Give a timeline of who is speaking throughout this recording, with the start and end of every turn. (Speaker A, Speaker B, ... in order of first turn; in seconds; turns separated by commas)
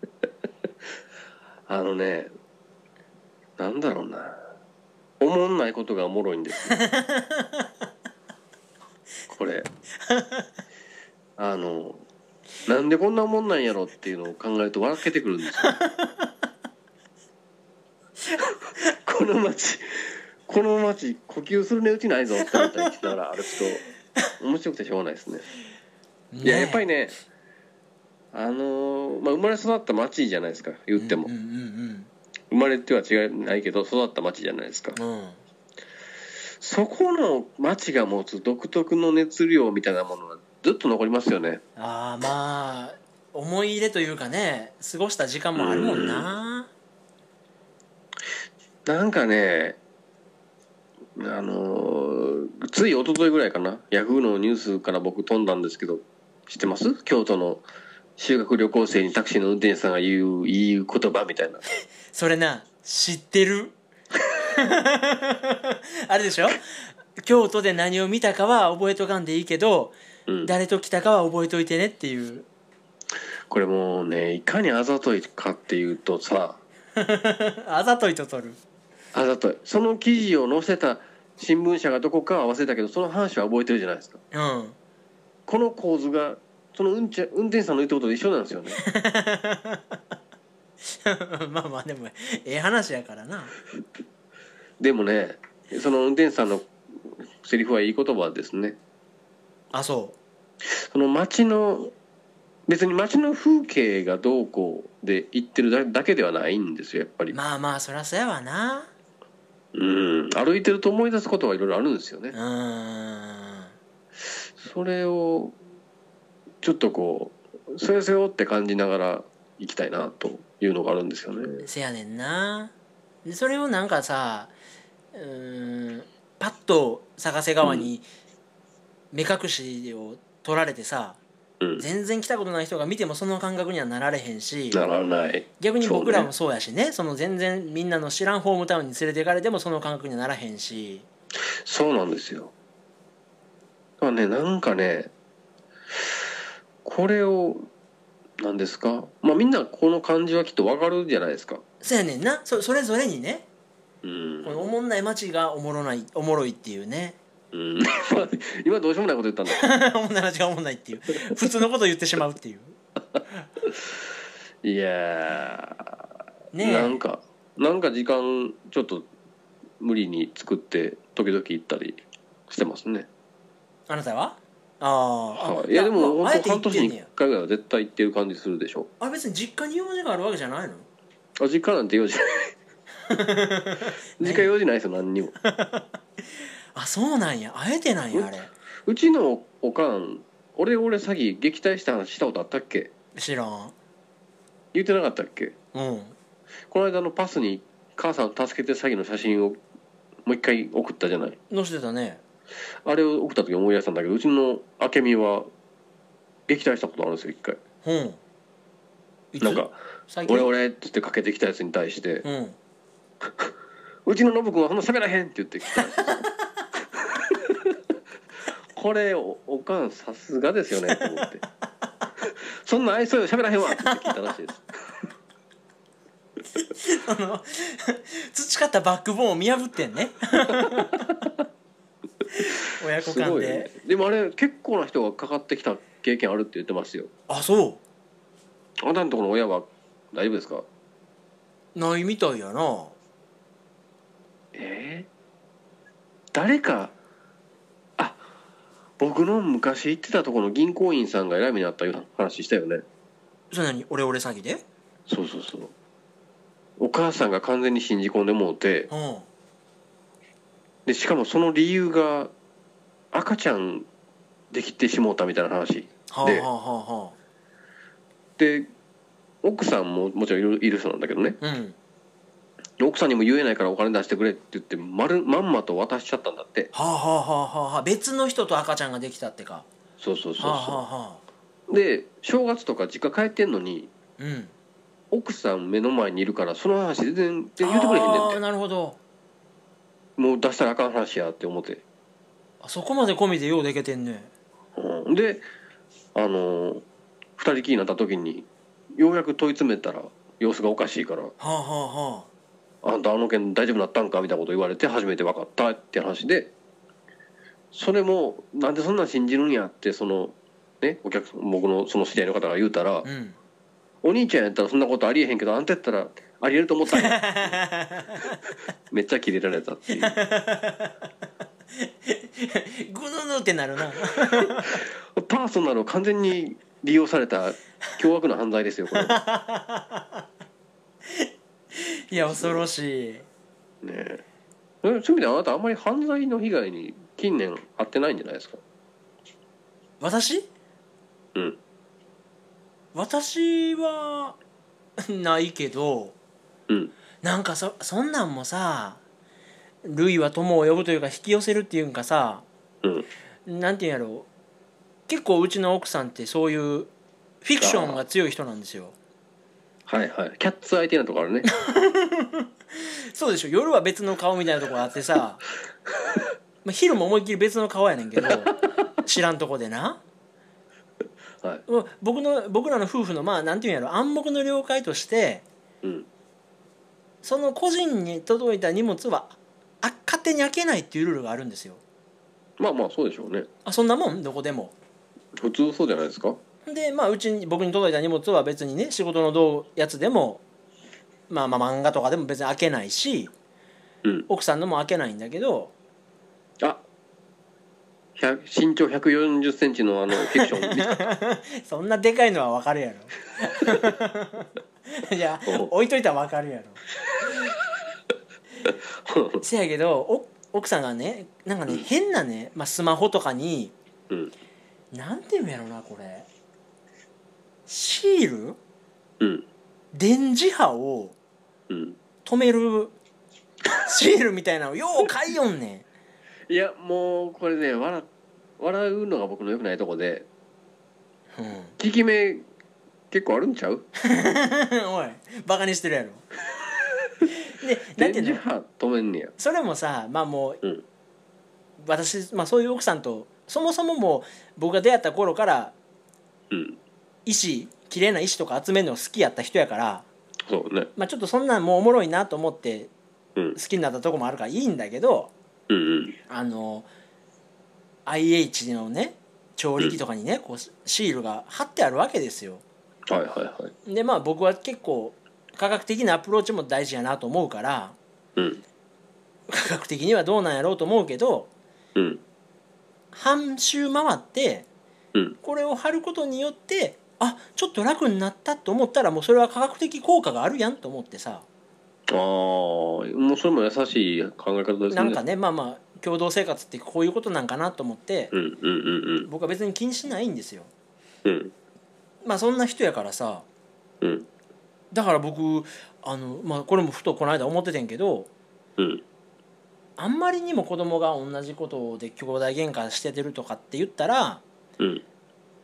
Speaker A: 1.7-2.3, Speaker A: 3.6-4.4, Speaker A: 5.2-6.8, Speaker B: 6.7-7.7, Speaker A: 9.3-9.7, Speaker B: 10.0-10.5, Speaker A: 11.4-12.0, Speaker A: 12.7-15.8, Speaker B: 15.6-16.3, Speaker A: 18.9-23.8, Speaker B: 22.4-23.1, Speaker A: 24.4-25.4, Speaker B: 26.3-26.8, Speaker A: 26.4-27.1, Speaker A: 28.3-31.3, Speaker B: 30.9-32.1, Speaker A: 32.5-35.0, Speaker B: 35.0-35.4, Speaker A: 36.6-41.6, Speaker B: 41.8-46.7, Speaker A: 45.5-46.3, Speaker A: 48.9-49.8, Speaker A: 51.1-57.6, Speaker A: 58.2-61.6, Speaker B: 62.1-63.8, Speaker B: 64.4-66.6, Speaker B: 67.2-72.5, Speaker A: 70.3-70.5, Speaker A: 73.5-76.6, Speaker B: 77.0-78.6, Speaker A: 79.1-84.2, Speaker B: 84.3-84.8, Speaker A: 85.5-88.8, Speaker B: 88.8-90.0, Speaker B: 90.9-93.5, Speaker A: 94.8-98.8, Speaker B: 99.7-100.2, Speaker A: 100.6-101.9, Speaker A: 102.7-107.3, Speaker B: 107.3-108.9, Speaker A: 109.7-112.3, Speaker B: 112.3-113.7, Speaker A: 114.4-115.5, Speaker A: 116.6-121.6, Speaker B: 121.6-124.5, Speaker B: 125.1-128.0, Speaker A: 127.6-127.9, Speaker B: 129.1-131.2, Speaker B: 131.8-134.8, Speaker A: 134.7-136.3, Speaker B: 135.6-141.1, Speaker A: 141.6-142.5, Speaker A: 144.0-145.1, Speaker A: 145.9-146.2, Speaker A: 146.8-147.7, Speaker A: 148.4-151.6, Speaker B: 151.8-153.4, Speaker A: 154.0-154.7, Speaker B: 154.4-157.2, Speaker A: 157.5-159.6, Speaker B: 159.5-162.8, Speaker A: 163.1-163.9, Speaker A: 164.6-166.0, Speaker B: 166.5-167.0, Speaker A: 166.6-169.1, Speaker A: 169.8-173.1, Speaker B: 173.9-177.1, Speaker A: 175.3-178.9, Speaker B: 179.0-180.9, Speaker A: 181.4-182.5, Speaker B: 183.1-184.5, Speaker A: 184.2-185.3, Speaker B: 185.4-185.9, Speaker B: 186.7-188.5, Speaker A: 188.8-192.9, Speaker B: 193.2-193.7, Speaker A: 194.7-195.5, Speaker B: 195.7-196.2, Speaker A: 196.7-199.6, Speaker A: 200.2-201.4, Speaker B: 201.5-202.2, Speaker A: 202.8-205.5, Speaker A: 206.5-207.6, Speaker B: 207.8-208.2, Speaker B: 209.3-210.5, Speaker A: 209.4-209.7, Speaker A: 210.2-212.2, Speaker B: 212.2-212.6, Speaker A: 213.2-213.5, Speaker A: 214.1-216.3, Speaker B: 216.0-216.3, Speaker A: 216.9-217.8, Speaker A: 218.7-221.4, Speaker B: 220.9-221.2, Speaker A: 222.2-225.0, Speaker B: 223.7-224.3, Speaker B: 226.6-231.1, Speaker A: 230.5-231.3, Speaker B: 232.3-233.7, Speaker A: 233.0-237.1, Speaker B: 237.3-237.8, Speaker A: 238.8-240.7, Speaker B: 241.7-242.9, Speaker A: 244.5-245.1, Speaker A: 246.3-246.9, Speaker A: 249.0-252.8, Speaker B: 253.5-254.6, Speaker A: 255.1-255.7, Speaker A: 256.8-258.9, Speaker B: 258.9-259.3, Speaker A: 260.9-262.3, Speaker A: 263.1-263.9, Speaker A: 264.5-266.5, Speaker B: 266.1-267.1, Speaker A: 268.4-268.7, Speaker A: 269.4-271.4, Speaker B: 271.4-271.8, Speaker A: 272.8-276.7, Speaker B: 276.7-279.6, Speaker A: 280.0-280.8, Speaker B: 280.4-281.2, Speaker A: 281.7-283.9, Speaker B: 284.2-284.5, Speaker A: 285.1-288.4, Speaker B: 287.6-289.0, Speaker A: 290.2-291.8, Speaker B: 292.6-294.3, Speaker A: 294.8-295.4, Speaker A: 296.1-296.8, Speaker A: 297.4-301.3, Speaker B: 301.4-302.3, Speaker A: 302.8-306.5, Speaker A: 307.7-313.1, Speaker B: 313.0-313.4, Speaker A: 314.0-317.6, Speaker B: 316.9-318.4, Speaker A: 318.9-320.2, Speaker B: 319.9-320.9, Speaker B: 321.8-324.8, Speaker A: 324.4-329.2, Speaker B: 328.9-330.2, Speaker B: 331.1-333.2, Speaker A: 332.1-332.7, Speaker A: 333.8-334.2, Speaker A: 334.8-338.6, Speaker B: 340.0-340.5, Speaker B: 342.9-344.4, Speaker B: 345.0-346.1, Speaker B: 347.2-349.0, Speaker B: 349.8-352.4, Speaker B: 353.4-354.3, Speaker B: 355.1-356.9, Speaker B: 357.4-358.9, Speaker A: 357.6-358.0, Speaker A: 359.9-361.5, Speaker B: 361.5-365.4, Speaker B: 366.6-370.0, Speaker B: 371.7-375.4, Speaker A: 375.8-376.1, Speaker B: 377.2-381.8, Speaker A: 382.6-383.5, Speaker B: 383.6-384.7, Speaker A: 385.4-386.4, Speaker B: 386.6-390.4, Speaker B: 391.3-393.3, Speaker B: 394.3-395.7, Speaker A: 398.2-401.1, Speaker B: 400.2-406.8, Speaker A: 405.4-405.7, Speaker A: 408.6-409.4, Speaker B: 409.4-413.7, Speaker B: 414.9-416.3, Speaker B: 417.7-418.6, Speaker B: 419.9-421.1, Speaker A: 421.7-422.0, Speaker B: 422.2-422.9, Speaker B: 423.8-425.9, Speaker A: 426.5-428.1, Speaker A: 428.6-430.3, Speaker B: 431.3-431.8, Speaker A: 431.8-432.4, Speaker A: 433.1-433.8, Speaker B: 434.0-436.2, Speaker B: 437.5-438.4, Speaker A: 438.0-439.3, Speaker B: 439.4-440.6, Speaker B: 441.8-445.7, Speaker A: 446.5-446.8, Speaker B: 447.2-450.1, Speaker A: 450.5-450.9, Speaker B: 451.0-452.9, Speaker B: 453.5-455.3, Speaker A: 455.7-456.2, Speaker B: 456.3-456.9, Speaker B: 458.1-462.6, Speaker A: 463.1-463.7, Speaker B: 463.9-467.9, Speaker A: 468.4-468.6, Speaker B: 469.5-471.5, Speaker A: 471.9-472.2, Speaker B: 473.1-474.7, Speaker B: 475.4-481.4, Speaker A: 482.1-485.2, Speaker B: 484.9-488.3, Speaker A: 488.3-489.3, Speaker B: 489.2-490.7, Speaker A: 491.2-491.5, Speaker B: 492.2-493.4, Speaker A: 494.0-494.3, Speaker B: 494.9-498.3, Speaker A: 498.8-499.0, Speaker B: 500.0-504.4